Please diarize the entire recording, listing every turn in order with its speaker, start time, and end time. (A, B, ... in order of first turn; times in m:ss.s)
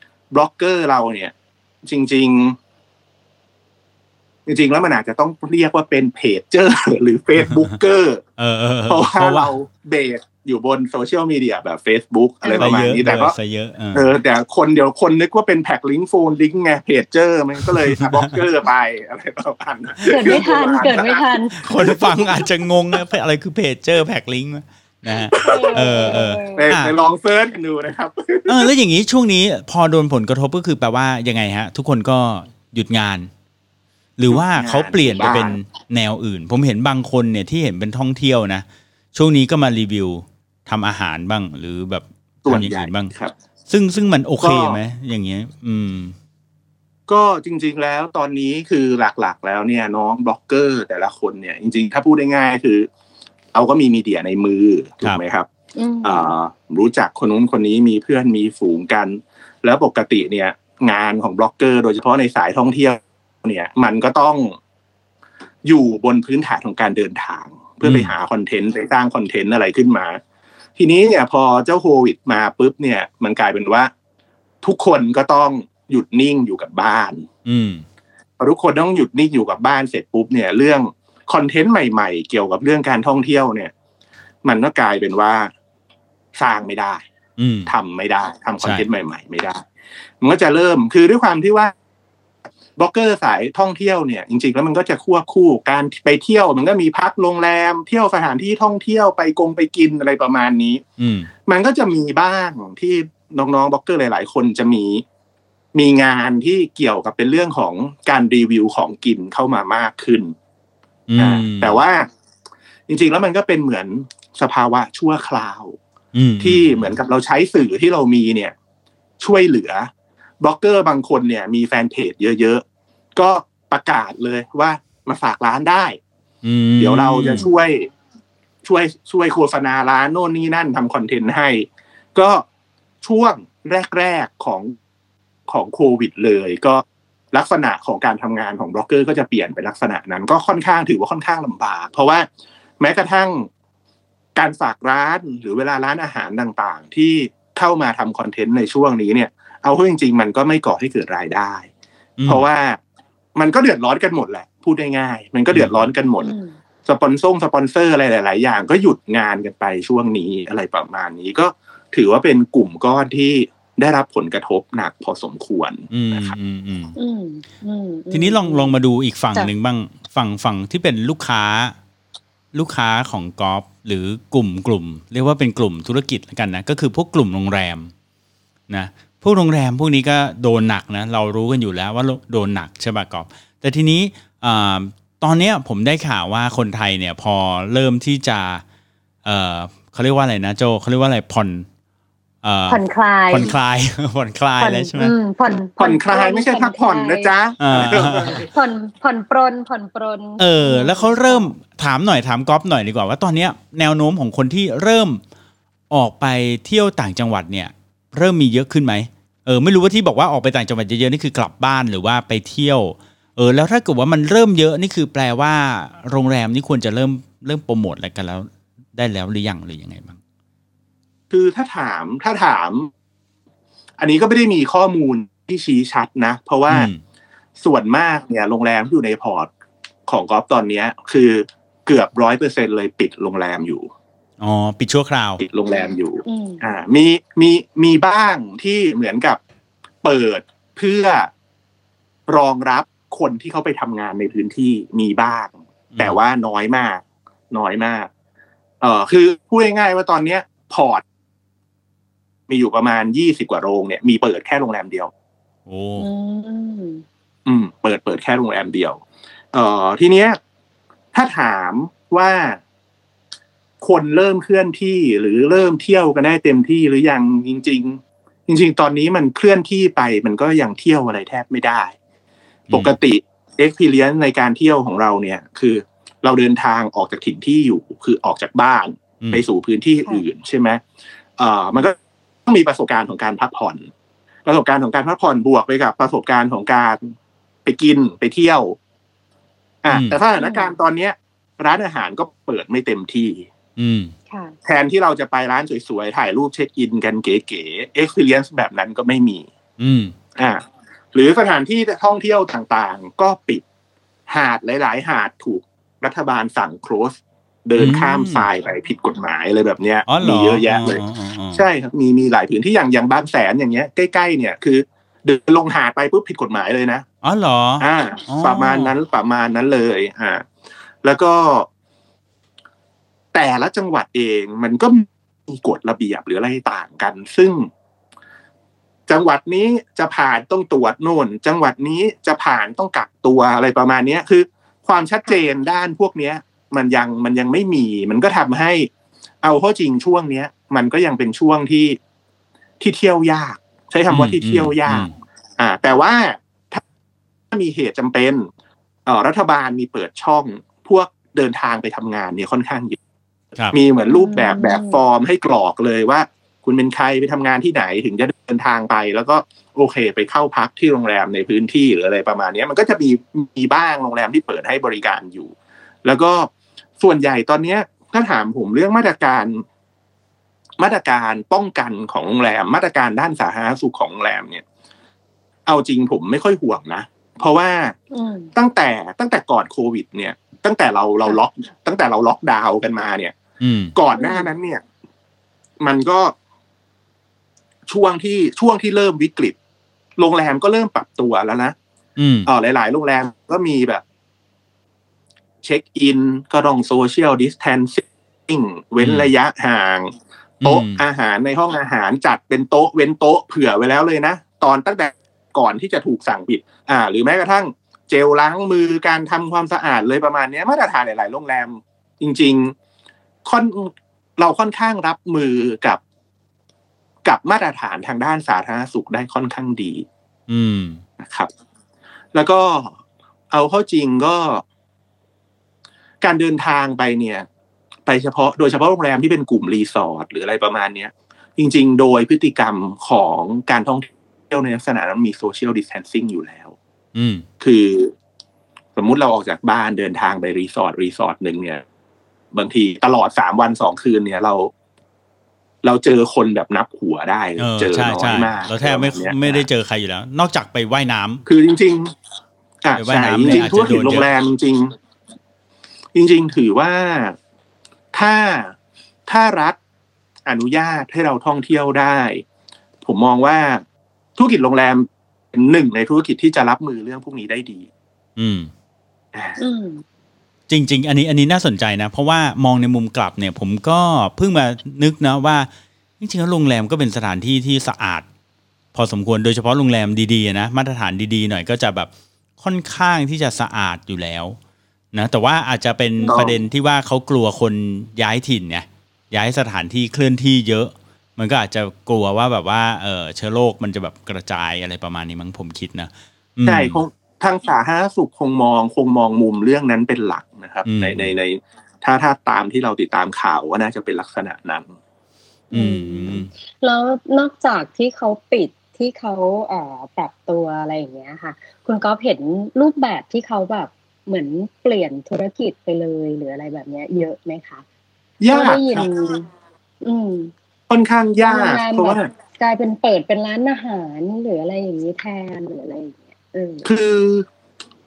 0:00.3-0:01.3 A
0:01.8-0:02.6 A
0:04.5-0:08.2 A
0:08.4-0:09.5 B
0:08.9-0:13.4 A
0:12.4-0:12.8 C
0:12.6-0:14.0 B
0:13.9-0:22.4 A
0:17.6-0:18.4 B
0:20.0-0:20.5 B
0:20.1-0:21.6 C
0:21.6-0:27.0 B
0:25.3-0:26.0 A
0:25.4-0:26.7 C
0:26.5-0:28.7 A
0:28.5-0:33.3 B
0:34.2-0:43.1 B
0:34.3-0:35.6 A
0:42.4-0:43.3 A
0:43.7-0:46.2 B
0:44.4-0:44.8 A
0:47.1-0:52.9 A
0:53.5-0:55.5 A
0:55.8-0:56.3 C
0:56.0-1:04.6 A
1:05.6-1:10.2 A
1:07.8-1:08.1 B
1:10.8-1:13.9 A
1:14.6-1:17.3 A
1:17.4-1:17.8 B
1:18.4-1:23.7 A
1:24.4-1:25.5 A
1:26.4-1:27.0 A
1:27.4-1:27.7 B
1:27.7-1:29.6 A
1:30.2-1:31.7 A
1:32.8-1:40.8 A
1:41.0-1:41.3 B
1:41.5-1:45.0 A
1:45.7-1:50.3 A
1:51.1-1:51.8 B
1:51.2-1:52.1 A
1:52.9-1:55.8 A
1:56.1-1:57.0 B
1:56.4-1:58.5 A
1:59.2-1:59.9 A
2:00.4-2:02.6 A
2:03.2-2:06.0 A
2:06.4-2:07.5 B
2:06.8-2:07.9 A
2:08.6-2:12.4 A
2:13.0-2:14.8 A
2:15.5-2:22.3 A
2:22.8-2:23.5 A
2:24.4-2:31.7 A
2:32.2-2:32.5 B
2:32.2-2:32.8 A
2:33.4-2:36.3 A
2:35.5-2:35.8 B
2:36.2-2:36.6 C
2:36.9-2:46.4 A
2:45.9-2:47.0 B
2:47.0-2:48.8 C
2:48.1-2:51.8 B
2:52.5-2:57.9 B
2:58.7-3:08.6 B
3:09.2-3:11.7 B
3:12.4-3:15.2 B
3:12.7-3:13.5 C
3:14.6-3:17.3 C
3:15.8-3:18.5 A
3:17.6-3:18.5 B
3:18.3-3:21.5 C
3:20.4-3:25.2 B
3:25.9-3:40.2 B
3:41.3-3:42.9 A
3:44.0-3:46.9 A
3:46.7-3:47.0 B
3:47.6-3:49.5 A
3:50.1-3:53.9 A
3:54.4-3:55.4 B
3:55.4-3:59.4 A
3:55.7-3:56.6 C
4:00.0-4:01.3 A
4:02.3-4:08.1 A
4:08.8-4:11.0 A
4:12.5-4:15.1 A
4:15.7-4:16.1 B
4:16.0-4:17.0 C
4:17.5-4:19.0 A
4:19.5-4:20.4 A
4:21.1-4:22.6 A
4:23.8-4:32.0 A
4:32.7-4:40.8 A
4:41.4-4:43.9 A
4:44.5-4:48.8 A
4:49.8-4:53.5 A
4:49.9-4:50.2 B
4:50.4-4:50.7 C
4:53.8-4:54.1 B
4:54.3-4:54.6 C
4:54.6-4:59.5 A
4:59.8-5:00.2 B
5:00.4-5:00.6 A
5:01.1-5:03.6 A
5:04.3-5:11.0 A
5:07.8-5:08.5 B
5:10.1-5:11.6 B
5:11.5-5:17.1 A
5:17.2-5:18.9 B
5:17.8-5:20.5 A
5:21.0-5:21.7 A
5:23.3-5:27.7 A
5:29.1-5:38.9 A
5:39.4-5:42.0 A
5:42.8-5:46.8 A
5:44.1-5:45.1 B
5:47.5-5:48.5 A
5:49.1-5:53.0 A
5:53.7-6:05.5 A
5:54.1-5:55.0 C
6:06.0-6:09.6 A
6:10.8-6:14.6 A
6:15.7-6:18.0 A
6:18.1-6:18.5 C
6:18.6-6:23.4 A
6:23.6-6:23.9 B
6:24.0-6:24.8 A
6:24.2-6:24.5 C
6:25.8-6:26.3 A
6:27.9-6:29.6 A
6:30.2-6:31.8 A
6:32.2-6:32.5 B
6:32.5-6:34.0 A
6:35.6-6:52.7 A
6:39.0-6:39.3 B
6:40.6-6:41.0 B
6:53.4-6:56.0 A
6:57.2-7:00.1 A
7:00.5-7:01.0 B
7:01.2-7:01.5 A
7:02.3-7:03.0 A
7:03.5-7:04.6 A
7:06.2-7:07.5 A
7:08.1-7:16.8 A
7:17.2-7:17.4 B
7:17.6-7:18.1 A
7:19.0-7:21.8 A
7:22.5-7:24.7 A
7:25.8-7:29.6 A
7:27.6-7:31.4 B
7:31.5-7:32.1 A
7:32.8-7:34.9 A
7:33.0-7:34.3 B
7:36.2-7:37.4 A
7:38.1-7:38.8 A
7:39.3-7:39.8 A
7:40.5-7:42.4 A
7:43.0-7:43.8 A
7:44.4-7:47.9 A
7:48.4-7:48.7 B
7:49.3-7:49.6 A
7:49.6-7:50.0 C
7:50.7-7:55.7 B
7:56.2-7:58.3 B
7:58.9-8:04.6 B
8:05.1-8:17.0 B
8:06.2-8:06.4 C
8:06.3-8:06.6 A
8:16.7-8:24.9 A
8:20.8-8:21.3 B
8:25.7-8:26.5 B
8:25.7-8:37.8 C
8:38.4-8:39.1 A
8:38.5-8:39.5 C
8:40.0-8:40.5 C
8:40.9-8:42.3 A
8:41.4-8:46.9 C
8:46.8-8:47.5 A